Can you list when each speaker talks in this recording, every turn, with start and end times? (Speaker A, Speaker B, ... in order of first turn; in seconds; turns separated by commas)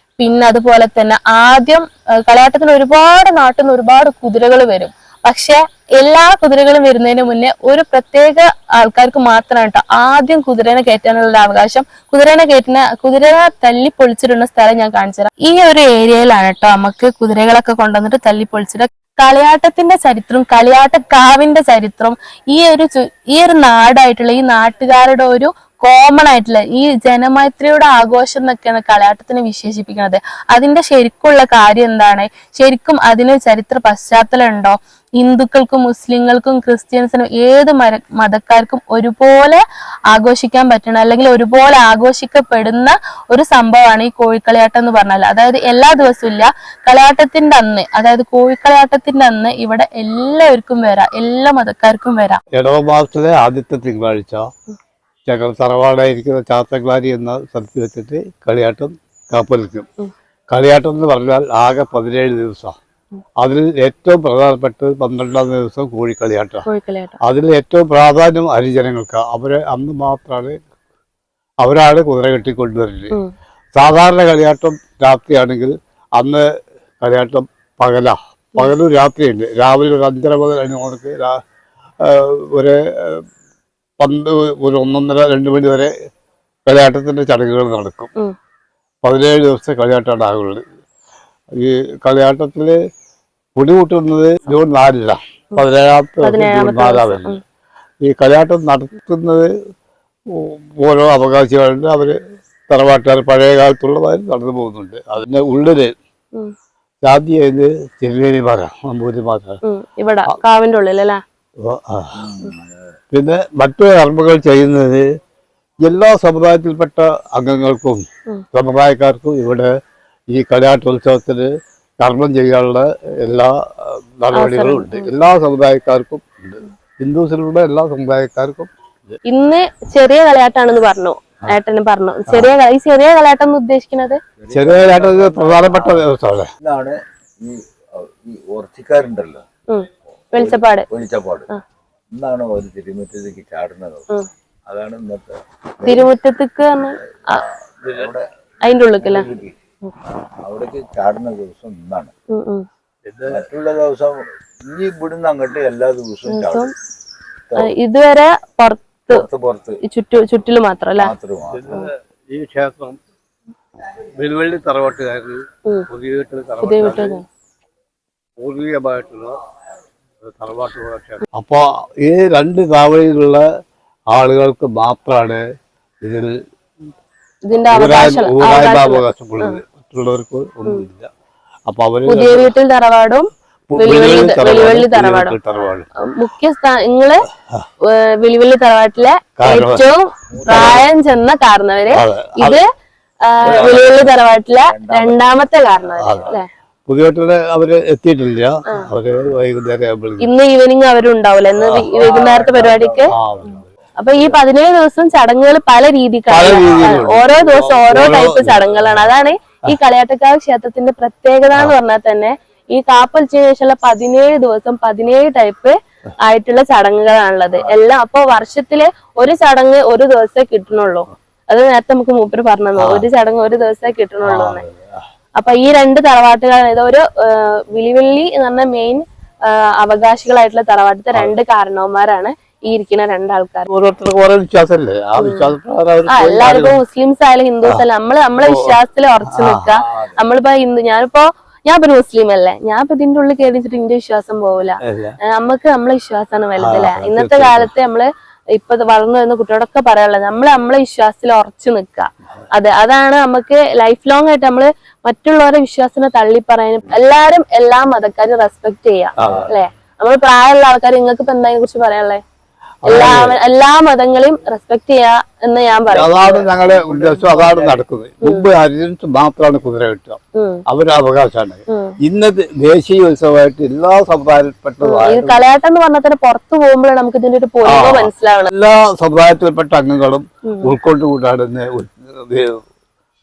Speaker A: 0.2-52.4, Speaker B: 52.5-54.5, Speaker B: 55.2-59.9, Speaker B: 60.5-62.8, Speaker B: 63.4-66.7, Speaker A: 66.7-67.2, Speaker B: 67.2-70.6, Speaker B: 71.6-73.2, Speaker B: 73.7-76.4, Speaker B: 77.0-81.4, Speaker B: 82.0-83.2, Speaker B: 84.0-85.9, Speaker B: 86.7-88.1, Speaker B: 89.0-90.6, Speaker B: 91.5-92.8, Speaker B: 93.5-97.4, Speaker A: 96.2-97.4, Speaker B: 98.0-99.5, Speaker B: 100.3-102.2, Speaker B: 102.7-105.9, Speaker B: 107.0-109.6, Speaker A: 109.7-111.2, Speaker B: 111.6-112.2, Speaker C: 112.1-113.0, Speaker B: 113.1-115.0, Speaker B: 115.8-119.7, Speaker B: 120.3-121.5, Speaker B: 122.0-129.2, Speaker A: 124.3-125.1, Speaker A: 129.2-134.2, Speaker C: 134.4-136.1, Speaker B: 134.5-136.5, Speaker C: 136.6-139.4, Speaker A: 139.7-140.8, Speaker C: 140.3-141.5, Speaker C: 142.1-144.1, Speaker C: 144.7-146.1, Speaker A: 145.8-147.4, Speaker C: 147.3-148.3, Speaker A: 148.6-149.3, Speaker C: 149.0-149.6, Speaker C: 150.4-152.1, Speaker A: 152.3-152.6, Speaker B: 153.1-153.4, Speaker C: 153.3-156.7, Speaker A: 156.3-156.7, Speaker A: 157.6-159.2, Speaker C: 159.1-159.8, Speaker A: 159.8-161.1, Speaker C: 161.0-161.6, Speaker B: 161.5-163.0, Speaker B: 164.2-167.2, Speaker A: 166.6-167.2, Speaker B: 168.4-169.3, Speaker B: 170.2-173.4, Speaker B: 174.1-175.4, Speaker B: 176.0-176.3, Speaker A: 177.4-179.6, Speaker B: 177.7-181.1, Speaker B: 181.7-182.5, Speaker A: 182.1-185.3, Speaker B: 183.7-185.9, Speaker A: 186.0-187.2, Speaker A: 187.9-192.7, Speaker B: 189.4-189.8, Speaker C: 190.3-190.8, Speaker B: 190.5-190.8, Speaker B: 191.9-192.6, Speaker A: 193.2-196.4, Speaker B: 193.4-194.1, Speaker C: 193.6-193.8, Speaker C: 194.5-195.5, Speaker C: 196.0-196.3, Speaker B: 196.0-196.3, Speaker B: 196.9-200.3, Speaker A: 200.2-203.1, Speaker B: 201.6-202.1, Speaker C: 201.7-204.4, Speaker B: 203.1-203.6, Speaker A: 204.0-224.6, Speaker B: 206.3-209.1, Speaker B: 222.8-223.1, Speaker B: 224.2-225.0, Speaker A: 225.4-233.7, Speaker B: 233.7-236.8, Speaker A: 235.2-235.5, Speaker A: 236.1-262.2, Speaker B: 238.4-238.7, Speaker B: 239.3-239.7, Speaker C: 239.7-240.2, Speaker B: 244.8-245.2, Speaker B: 246.6-247.7, Speaker B: 259.2-259.5, Speaker C: 259.2-259.5, Speaker B: 262.8-263.4, Speaker A: 262.8-266.4, Speaker B: 265.9-275.4, Speaker C: 266.4-267.8, Speaker A: 268.2-268.5, Speaker A: 270.4-270.6, Speaker A: 271.7-271.9, Speaker A: 274.8-278.5, Speaker B: 277.6-282.6, Speaker A: 280.4-280.7